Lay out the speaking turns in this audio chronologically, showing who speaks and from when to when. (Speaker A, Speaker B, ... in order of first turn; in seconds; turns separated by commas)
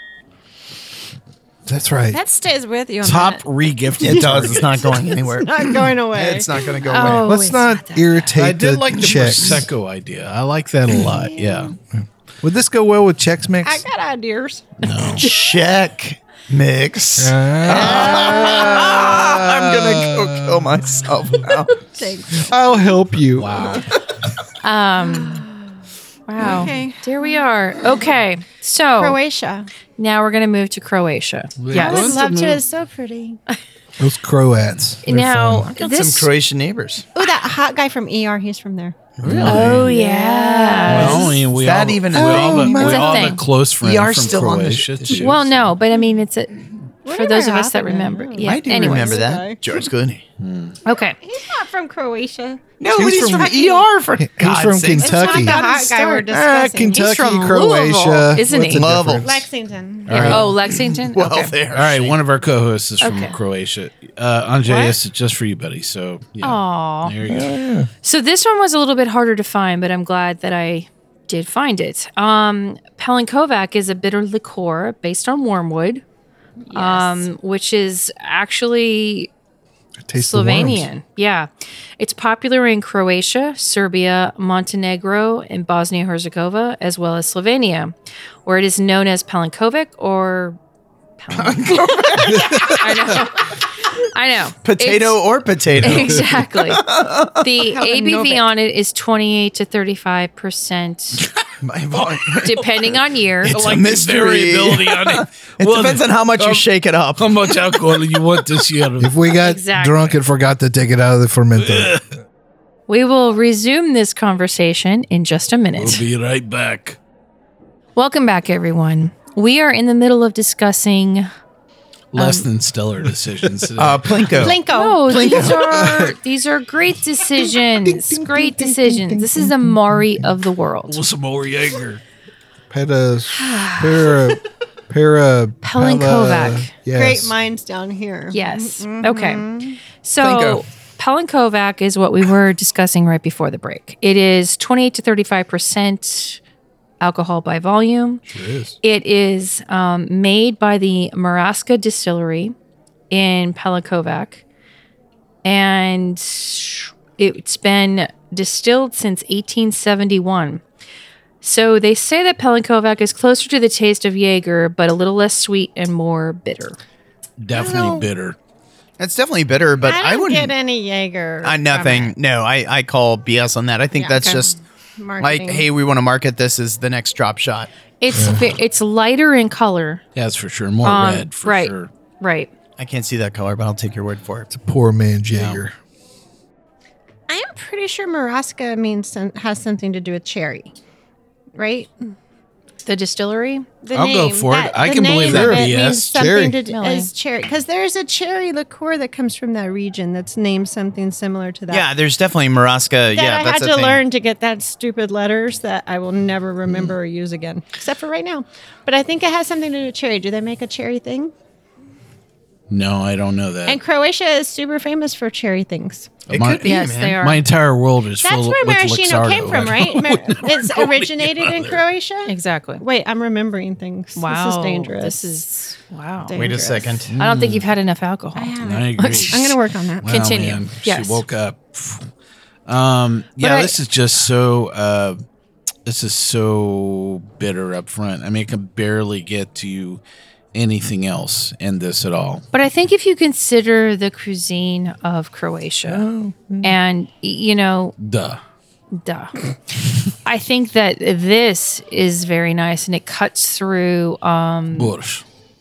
Speaker A: 1.7-2.2, Speaker B: 2.1-3.5, Speaker C: 3.0-5.0, Speaker D: 4.0-7.3, Speaker B: 4.7-6.8, Speaker E: 6.9-8.3, Speaker A: 7.0-9.7, Speaker C: 8.4-11.7, Speaker B: 11.1-11.7, Speaker A: 11.9-13.8, Speaker B: 13.6-15.6, Speaker C: 14.8-15.3, Speaker D: 15.2-21.8, Speaker A: 17.2-21.5, Speaker B: 17.8-18.7, Speaker B: 21.9-23.0, Speaker A: 22.4-23.8, Speaker C: 23.4-23.9, Speaker E: 24.6-25.4, Speaker B: 25.0-25.7, Speaker E: 26.3-29.2, Speaker B: 26.4-27.5, Speaker B: 29.0-29.7, Speaker E: 30.0-32.2, Speaker C: 31.6-32.6, Speaker B: 31.7-33.4, Speaker A: 34.0-35.7, Speaker E: 35.0-36.3, Speaker D: 35.7-37.1, Speaker B: 37.1-39.0, Speaker D: 39.2-39.8, Speaker C: 39.2-39.8, Speaker E: 39.4-41.3, Speaker B: 39.7-41.4, Speaker C: 40.9-45.6, Speaker D: 41.0-42.8, Speaker A: 42.1-42.9, Speaker E: 42.7-43.4, Speaker B: 42.9-43.2, Speaker D: 43.8-45.1, Speaker A: 43.9-45.1, Speaker E: 45.1-49.3, Speaker B: 47.0-49.6, Speaker D: 48.4-50.2, Speaker C: 50.4-50.8, Speaker E: 50.9-51.2, Speaker B: 51.2-53.9, Speaker D: 52.8-56.2, Speaker A: 52.9-55.6, Speaker B: 55.0-57.9, Speaker A: 56.3-59.4, Speaker E: 56.9-58.9, Speaker D: 58.7-59.4, Speaker B: 59.2-60.3, Speaker C: 60.1-60.5, Speaker E: 60.1-61.5, Speaker D: 60.1-62.1, Speaker C: 61.7-67.5, Speaker E: 63.0-63.4, Speaker E: 64.7-65.0, Speaker E: 66.4-67.2, Speaker A: 67.2-67.9, Speaker E: 68.0-76.0, Speaker B: 76.7-77.3, Speaker E: 76.7-79.3, Speaker A: 80.0-80.9, Speaker E: 80.2-90.6, Speaker E: 91.2-95.2, Speaker D: 91.3-92.9, Speaker A: 92.3-92.8, Speaker D: 94.6-98.1, Speaker E: 95.8-96.8, Speaker A: 95.8-96.4, Speaker E: 97.4-101.2, Speaker B: 98.0-98.4, Speaker D: 101.6-107.8, Speaker E: 102.4-103.5, Speaker C: 103.5-109.2, Speaker A: 109.0-112.0, Speaker E: 109.4-110.2, Speaker C: 111.6-112.0, Speaker E: 112.9-116.0, Speaker C: 115.8-117.0, Speaker E: 118.0-121.3, Speaker C: 122.1-124.6, Speaker E: 122.2-122.5, Speaker D: 123.8-125.7, Speaker B: 124.4-125.5, Speaker E: 124.7-131.0, Speaker A: 125.6-126.2, Speaker A: 127.4-130.4, Speaker C: 130.9-132.0, Speaker A: 132.7-137.3, Speaker E: 133.3-134.2, Speaker E: 135.6-136.7, Speaker B: 136.9-139.8, Speaker E: 138.3-139.5, Speaker E: 140.0-146.4, Speaker D: 140.2-140.6, Speaker E: 147.0-148.2, Speaker A: 148.3-148.8, Speaker E: 148.8-152.5, Speaker E: 153.1-154.4, Speaker E: 155.4-160.6, Speaker E: 161.4-166.8, Speaker C: 167.4-168.4, Speaker B: 167.5-168.1, Speaker D: 169.0-170.5, Speaker B: 169.8-172.1, Speaker D: 171.4-174.5, Speaker B: 173.9-175.7, Speaker D: 175.2-177.7, Speaker E: 178.0-180.0, Speaker A: 178.1-178.5, Speaker C: 180.2-181.9, Speaker E: 180.8-182.5, Speaker D: 182.8-184.5, Speaker A: 184.5-185.8, Speaker C: 185.3-185.6, Speaker B: 187.3-190.7, Speaker B: 191.6-192.1, Speaker E: 192.9-193.7, Speaker B: 193.8-201.9, Speaker C: 193.9-196.2, Speaker A: 195.3-196.6, Speaker E: 196.7-197.1, Speaker D: 201.7-204.0, Speaker B: 203.1-211.3, Speaker C: 206.7-206.9, Speaker C: 212.7-213.8, Speaker B: 213.7-216.1, Speaker D: 216.3-217.2, Speaker C: 216.3-221.9, Speaker E: 216.6-217.4, Speaker B: 218.2-225.3, Speaker E: 222.3-222.8, Speaker E: 224.2-226.5, Speaker B: 226.3-227.0, Speaker D: 226.3-227.1, Speaker C: 227.1-227.7, Speaker E: 227.2-229.5, Speaker B: 228.4-230.5, Speaker C: 228.6-232.1, Speaker E: 230.1-231.2, Speaker C: 232.7-235.2, Speaker E: 233.4-233.7, Speaker C: 235.9-240.0, Speaker C: 240.5-242.4, Speaker E: 242.5-246.1, Speaker A: 245.9-246.8, Speaker E: 246.6-247.9, Speaker C: 248.0-248.4, Speaker E: 248.9-249.3, Speaker E: 250.1-254.9, Speaker C: 254.7-255.2